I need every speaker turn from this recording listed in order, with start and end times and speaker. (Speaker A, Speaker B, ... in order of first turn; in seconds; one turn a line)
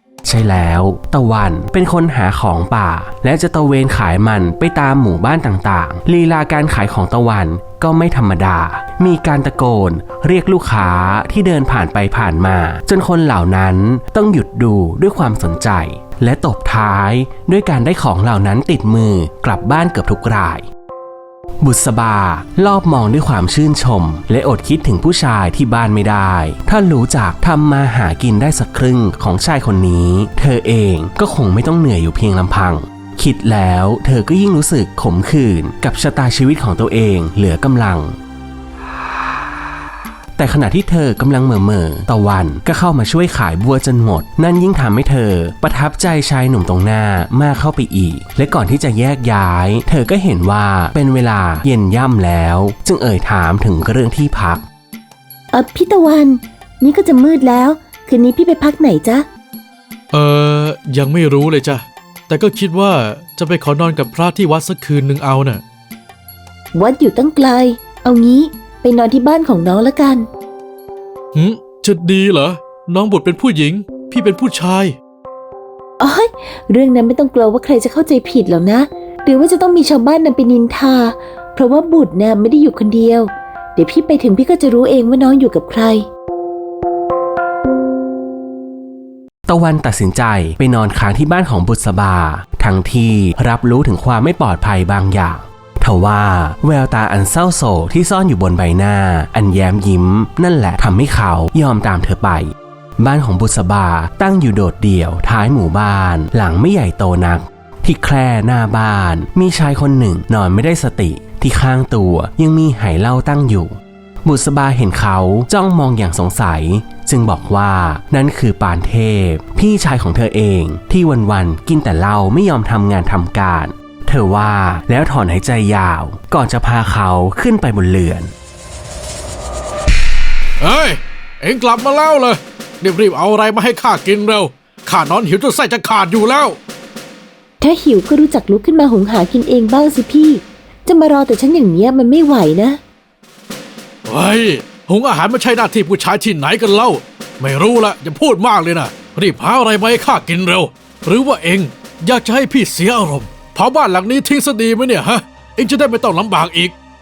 Speaker A: 0.2-20.6
Speaker A: 21.6-38.1
Speaker A: 40.4-54.6
Speaker B: 55.5-59.2
Speaker C: 60.1-65.6
Speaker B: 66.7-70.3
Speaker C: 71.3-74.9
Speaker B: 76.0-86.1
Speaker A: 89.5-128.3
Speaker C: 130.6-136.6
Speaker B: 137.6-142.8
Speaker C: 144.1-156.7